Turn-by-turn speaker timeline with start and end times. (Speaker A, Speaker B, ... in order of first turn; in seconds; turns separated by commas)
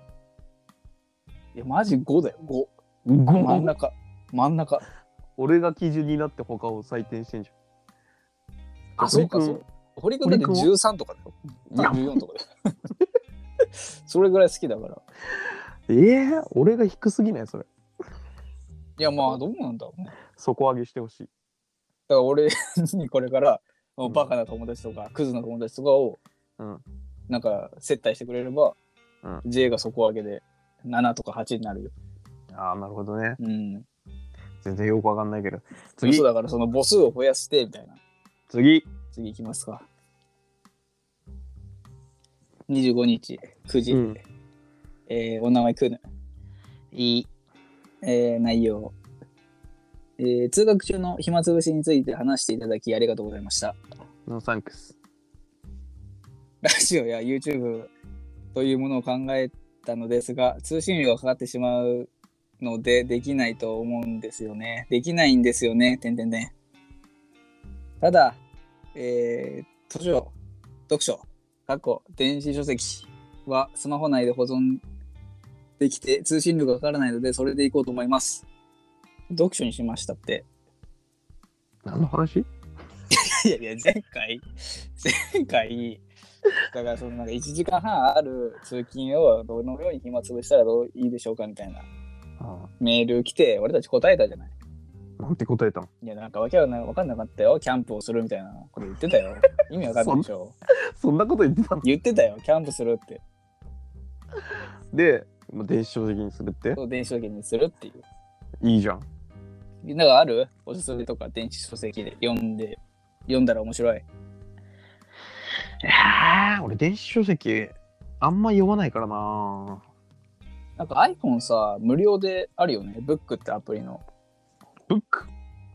Speaker A: 1.5-2.7, Speaker B: 3.0-3.7, Speaker A: 3.4-4.8, Speaker B: 5.4-7.5, Speaker B: 9.0-9.6, Speaker A: 9.0-12.4, Speaker B: 10.2-10.7, Speaker B: 11.7-12.2, Speaker A: 14.1-15.0, Speaker B: 15.9-17.7, Speaker A: 19.0-20.1, Speaker B: 20.3-21.3, Speaker A: 22.1-26.2, Speaker B: 24.0-24.3, Speaker B: 26.6-26.8, Speaker A: 27.3-28.8, Speaker A: 29.4-31.9, Speaker B: 32.5-33.4, Speaker A: 33.4-33.9, Speaker B: 34.6-36.2, Speaker A: 36.0-38.0, Speaker B: 38.5-38.9, Speaker A: 39.1-39.9, Speaker A: 42.7-44.1, Speaker B: 43.9-44.2, Speaker A: 45.1-46.0, Speaker B: 46.9-47.3, Speaker A: 48.0-48.9, Speaker A: 50.2-53.8, Speaker B: 54.3-55.0, Speaker A: 56.6-57.9, Speaker A: 58.5-66.5, Speaker A: 68.0-68.4, Speaker A: 68.9-70.3, Speaker A: 70.9-74.8, Speaker A: 75.8-78.4, Speaker A: 79.3-80.5, Speaker B: 81.8-82.5, Speaker A: 83.1-84.4, Speaker A: 85.0-86.0, Speaker A: 86.6-91.9, Speaker B: 92.4-92.7, Speaker A: 92.8-94.5, Speaker B: 95.2-95.9, Speaker A: 96.0-100.5, Speaker B: 99.8-101.8, Speaker A: 101.8-103.2, Speaker B: 104.4-106.8, Speaker A: 106.7-108.0, Speaker B: 108.6-109.0, Speaker A: 109.8-114.0, Speaker B: 115.8-119.8, Speaker A: 120.8-124.0, Speaker B: 124.9-125.3